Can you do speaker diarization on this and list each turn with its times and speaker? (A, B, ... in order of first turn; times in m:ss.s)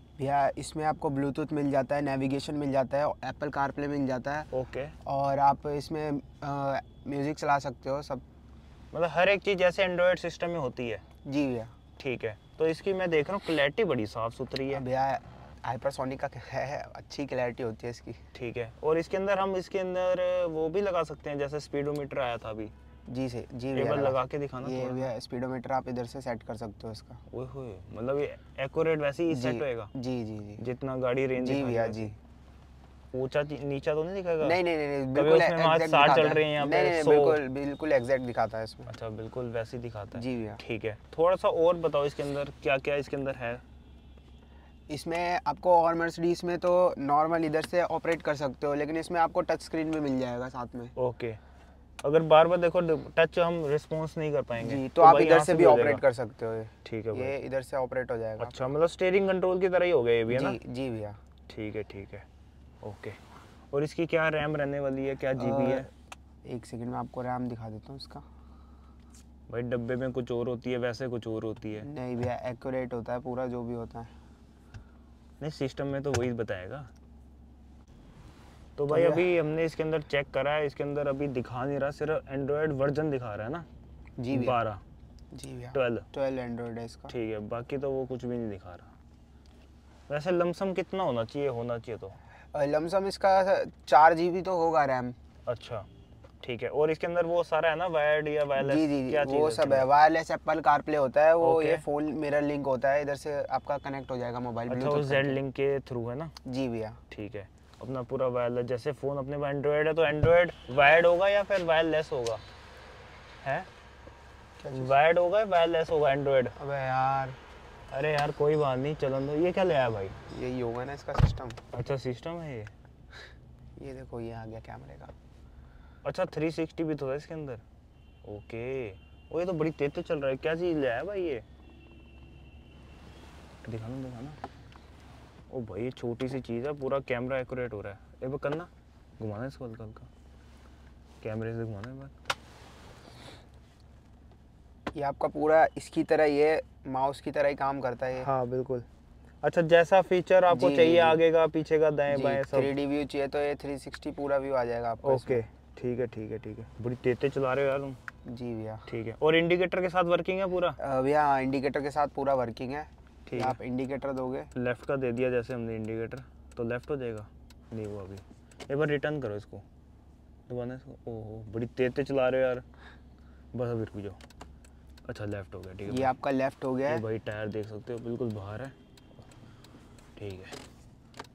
0:00.2-0:04.5 A
0:04.5-0:04.9 B
0:05.0-0:08.2 A
0:08.9-0:11.0 B
0:11.2-0:11.7 A
0:12.0-0:14.8 B
0:14.7-0:18.2 A
0:18.3-0:22.7 B
0:23.1-0:27.2 A
0:23.7-0:25.1 B
0:27.3-0:29.9 B
0:29.3-0:30.6 A
0:30.6-0:32.1 B
0:31.4-0:32.1 A
0:33.1-0:34.6 B
0:34.4-0:38.9 A
0:35.1-0:37.4 B
0:38.9-0:43.6 B
0:40.1-0:40.6 A
0:44.9-0:50.9 A
0:51.0-0:51.4 B
0:52.0-0:56.0 B
0:54.6-0:58.7 A
0:56.8-0:57.3 B
0:58.4-1:00.6 B
1:00.3-1:01.2 A
1:01.5-1:02.2 B
1:02.8-1:03.2 B
1:03.7-1:05.9 B
1:05.4-1:05.9 A
1:06.4-1:08.2 A
1:09.5-1:11.9 B
1:11.8-1:14.1 A
1:15.4-1:16.9 B
1:18.8-1:23.6 B
1:18.9-1:19.2 A
1:24.2-1:24.6 A
1:24.3-1:24.8 B
1:25.3-1:27.1 A
1:25.7-1:26.1 B
1:27.1-1:28.9 B
1:30.1-1:32.2 B
1:32.5-1:35.2 A
1:35.5-1:35.9 B
1:36.4-1:39.9 B
1:38.6-1:45.4 A
1:41.4-1:41.8 B
1:44.7-1:46.3 B
1:46.4-1:47.0 A
1:47.1-1:52.4 B
1:54.6-1:54.9 A
1:54.7-1:56.6 B
1:56.6-1:57.4 A
1:57.9-2:00.2 B
2:00.3-2:01.6 A
2:01.7-2:02.7 B
2:03.8-2:05.1 A
2:06.0-2:07.6 B
2:08.2-2:11.4 B
2:13.6-2:14.4 B
2:15.5-2:18.7 B
2:19.2-2:20.1 B
2:21.2-2:22.1 B
2:24.9-2:28.3 A
2:28.2-2:28.9 B
2:29.4-2:32.7 B
2:30.5-2:31.2 A
2:32.1-2:35.4 A
2:35.0-2:38.0 B
2:38.2-2:38.8 A
2:38.9-2:40.8 B
2:40.8-2:44.5 A
2:43.3-2:43.6 B
2:44.6-2:49.6 B
2:50.5-2:52.6 B
2:53.5-2:54.2 B
2:55.1-2:56.1 B
2:55.9-2:57.0 A
2:56.9-2:58.7 B
3:00.2-3:00.6 B